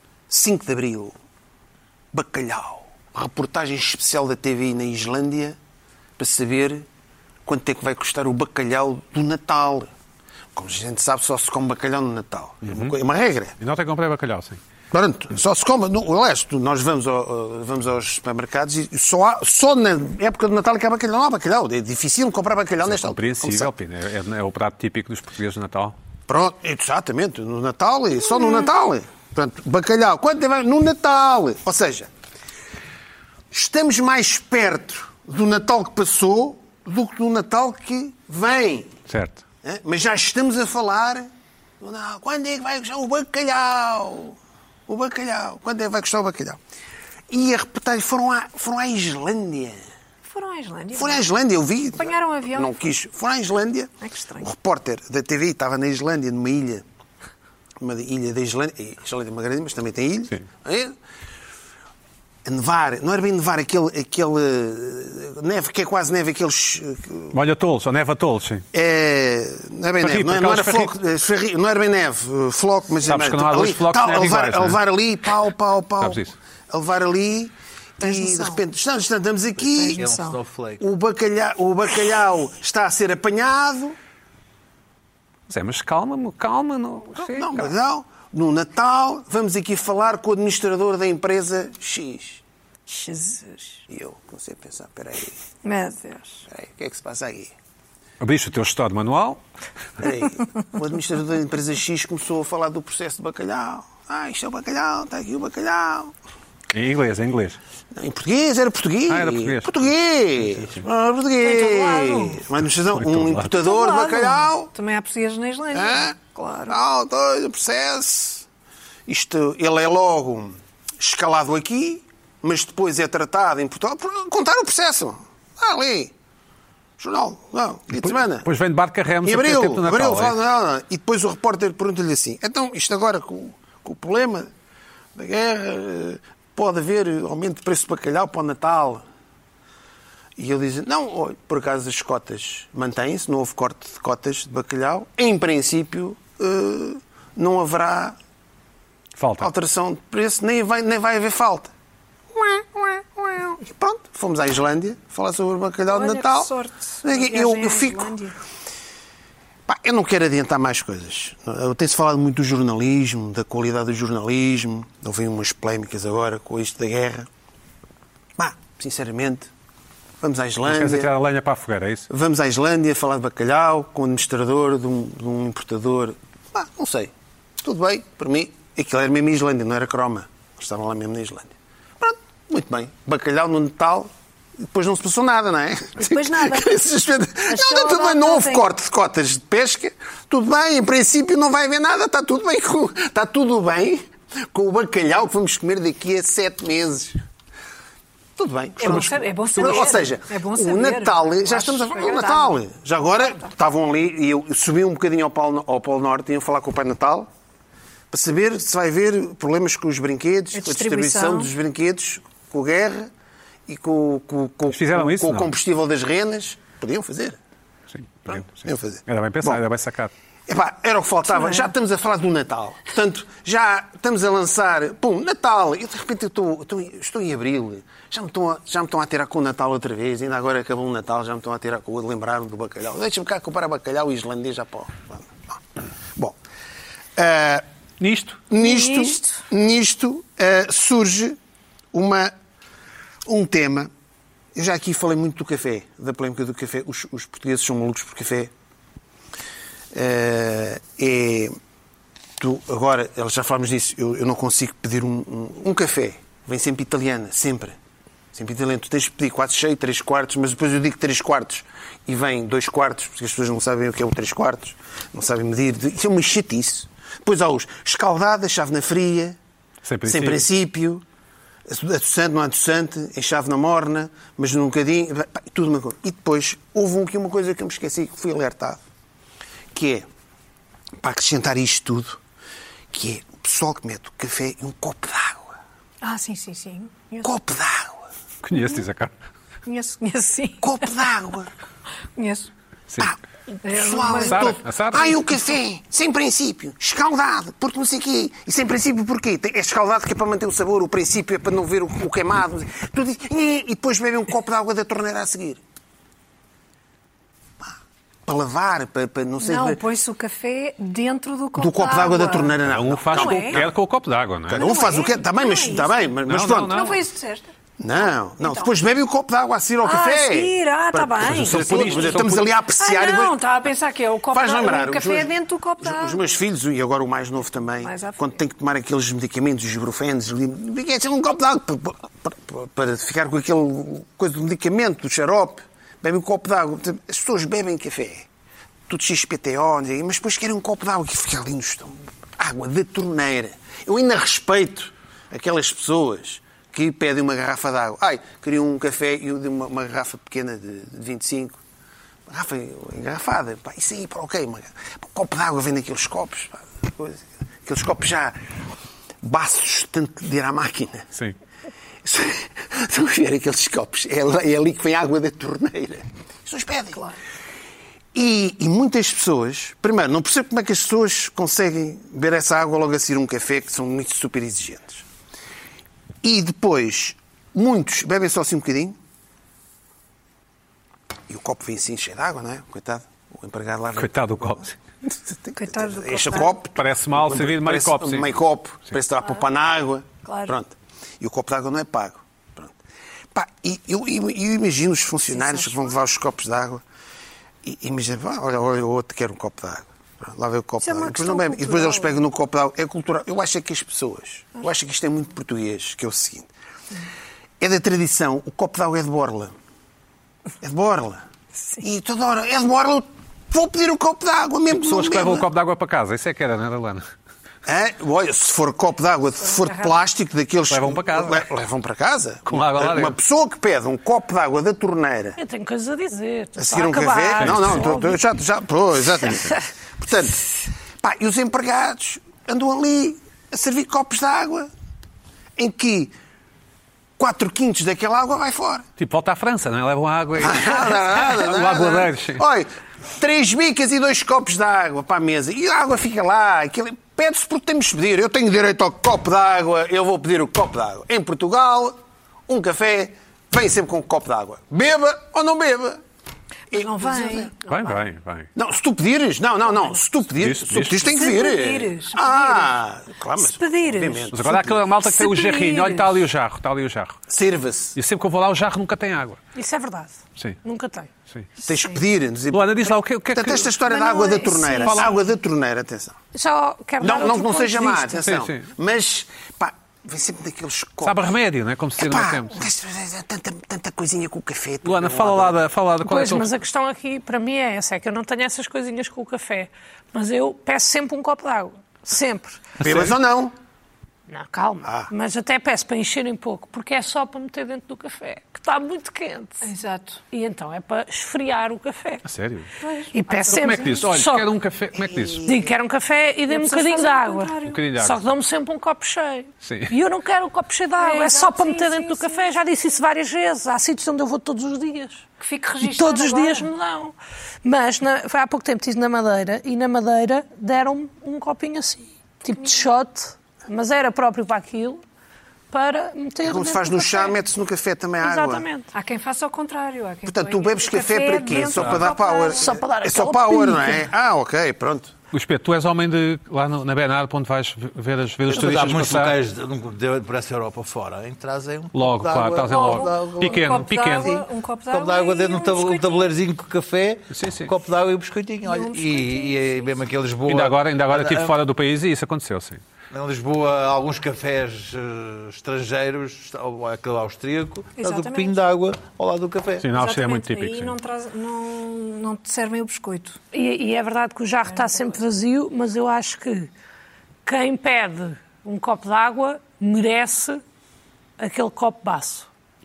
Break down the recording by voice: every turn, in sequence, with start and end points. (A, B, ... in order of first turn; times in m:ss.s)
0:00.3-0:01.1 A
0:02.1-0:05.6 A
0:06.2-0:06.9 A
0:07.4-0:09.9 A
0:10.5-0:13.5 A
0:12.6-0:13.0 B
0:13.6-0:14.6 B
0:14.9-0:23.7 A
0:22.8-0:26.0 B
0:26.3-0:32.1 A
0:33.5-0:38.9 A
0:39.1-0:39.4 B
0:39.6-0:41.3 A
0:41.8-0:44.4 A
0:44.9-0:46.6 A
0:47.3-0:49.8 A
0:50.3-0:51.3 C
0:50.9-0:56.8 A
0:52.0-0:52.7 C
0:54.0-0:54.5 C
0:57.8-1:01.0 A
1:02.4-1:07.4 A
1:07.3-1:08.6 B
1:08.7-1:20.0 A
1:10.0-1:11.0 B
1:13.1-1:14.8 B
1:16.0-1:16.4 B
1:18.0-1:18.6 C
1:19.7-1:20.4 C
1:19.9-1:20.8 D
1:20.8-1:24.0 A
1:25.5-1:27.7 B
1:27.2-1:32.4 A
1:32.9-1:33.8 C
1:33.9-1:35.4 A
1:35.6-1:36.4 C
1:36.5-1:37.5 A
1:38.2-1:39.4 B
1:40.0-1:46.1 A
1:46.7-1:47.6 B
1:47.9-1:54.7 A
1:49.1-1:50.8 B
1:51.4-1:52.4 C
1:52.9-1:53.6 B
1:53.6-1:56.8 C
1:55.7-1:58.4 A
1:59.1-2:06.1 A
2:07.0-2:08.5 A
2:07.9-2:10.4 B
2:09.2-2:14.5 A
2:15.2-2:19.0 A
2:20.4-2:28.2 A
2:29.2-2:29.5 B
2:29.4-2:31.7 A
2:32.3-2:38.1 A
2:35.9-2:38.4 C
2:39.7-2:47.3 A
2:48.4-2:49.5 A
2:50.2-2:51.1 A
2:50.6-2:52.1 B
2:52.1-3:04.1 A
3:04.6-3:17.2 A
3:06.0-3:06.8 C
3:07.5-3:08.7 C
3:18.4-3:27.3 A
3:18.8-3:22.6 C
3:18.8-3:19.9 B
3:28.1-3:33.1 A
3:30.5-3:31.5 C
3:33.7-3:37.4 A
3:34.7-3:35.5 B
3:37.9-3:40.1 B
3:38.3-3:39.6 A
3:40.5-3:55.6 A
3:41.3-3:41.7 C
3:57.2-3:57.6 A
3:58.0-3:58.4 B
3:58.5-4:01.4 A
3:58.6-3:59.4 C
4:01.9-4:02.3 A
4:03.3-4:03.9 A
4:04.6-4:08.5 A
4:09.9-4:11.5 A
4:12.4-4:17.8 A
4:18.3-4:29.4 A
4:29.8-4:30.4 B
4:30.1-4:31.0 A
4:31.7-4:38.8 A
4:39.7-4:40.0 A
4:41.0-4:42.2 A
4:42.9-4:45.6 A
4:46.0-4:47.3 C
4:47.2-4:48.0 A
4:48.4-4:49.1 B
4:49.7-4:50.9 C
4:50.6-4:51.5 A
4:52.2-4:52.5 C
4:53.0-5:05.6 A
4:53.6-4:54.6 C
4:54.2-4:55.2 B
5:08.3-5:09.8 A
5:09.4-5:12.6 C
5:11.6-5:13.7 A
5:12.6-5:14.7 B
5:13.1-5:13.6 C
5:14.5-5:16.9 A
5:14.5-5:18.7 C
5:16.3-5:17.0 B
5:17.8-5:23.4 A
5:19.8-5:22.2 C
5:21.2-5:22.5 B
5:22.8-5:26.2 C
5:24.3-5:38.3 A
5:27.8-5:28.4 C
5:38.9-5:51.6 A
5:52.3-5:58.4 A
5:59.2-6:01.1 A
6:02.0-6:07.1 A
6:08.1-6:15.0 A
6:16.2-6:19.0 A
6:21.3-6:32.8 A
6:24.0-6:24.8 B
6:25.6-6:26.5 C
6:26.7-6:28.3 B
6:33.3-6:36.8 A
6:35.3-6:36.0 C
6:37.6-6:46.5 A
6:40.8-6:42.1 C
6:47.6-6:49.5 A
6:50.6-6:51.2 A
6:51.8-6:55.4 A
6:54.7-6:57.1 B
6:57.7-7:05.4 A
6:59.4-7:00.0 C
7:00.7-7:01.4 B
7:02.5-7:03.2 B
7:05.4-7:08.2 E
7:06.6-7:14.7 A
7:07.4-7:08.0 B
7:15.6-7:16.1 A
7:17.2-7:18.8 A
7:19.0-7:22.4 B
7:20.4-7:32.0 A
7:32.5-7:36.0 A
7:36.7-7:37.5 A
7:36.7-7:37.5 C
7:37.7-7:38.5 B
7:38.6-7:44.8 A
7:40.4-7:41.1 B
7:41.1-7:42.8 C
7:43.4-7:44.3 C
7:44.3-7:47.2 B
7:45.0-7:46.2 C
7:47.3-7:48.0 A
7:48.0-7:49.4 B
7:49.6-7:51.1 E
7:51.6-7:56.1 A
7:51.7-7:52.0 C
7:52.5-7:53.8 B
7:53.9-7:55.1 C
7:54.8-7:55.1 B
7:56.3-7:58.2 E
7:57.0-8:01.3 A
7:58.2-7:58.7 B
8:01.0-8:02.6 B
8:02.0-8:05.6 A
8:04.8-8:06.5 B
8:06.0-8:12.7 E
8:12.8-8:13.1 B
8:12.8-8:13.5 A
8:14.3-8:19.7 E
8:14.8-8:15.1 A
8:19.6-8:20.2 C
8:20.3-8:22.2 E
8:22.2-8:22.7 B
8:22.8-8:24.1 C
8:23.1-8:24.5 E
8:23.5-8:25.4 B
8:24.9-8:25.7 A
8:25.4-8:35.2 E
8:26.5-8:27.8 C
8:27.6-8:28.2 B
8:29.6-8:29.9 B
8:31.0-8:32.6 C
8:35.4-8:36.7 C
8:35.8-8:45.0 E
8:45.7-8:47.4 E
8:46.4-8:48.7 A
8:48.2-8:48.9 E
8:48.9-8:52.7 C
8:50.3-8:55.1 A
8:51.7-8:52.1 B
8:52.4-8:54.0 E
8:55.3-8:59.4 B
8:58.5-9:11.6 D
9:01.9-9:04.4 B
9:02.7-9:06.3 C
9:07.3-9:07.7 B
9:08.6-9:10.0 C
9:10.5-9:12.8 B
9:13.1-9:19.9 D
9:18.0-9:18.6 C
9:19.8-9:21.0 B
9:19.9-9:23.4 C
9:23.5-9:26.7 E
9:24.7-9:25.2 C
9:27.4-9:30.6 E
9:31.4-9:32.5 E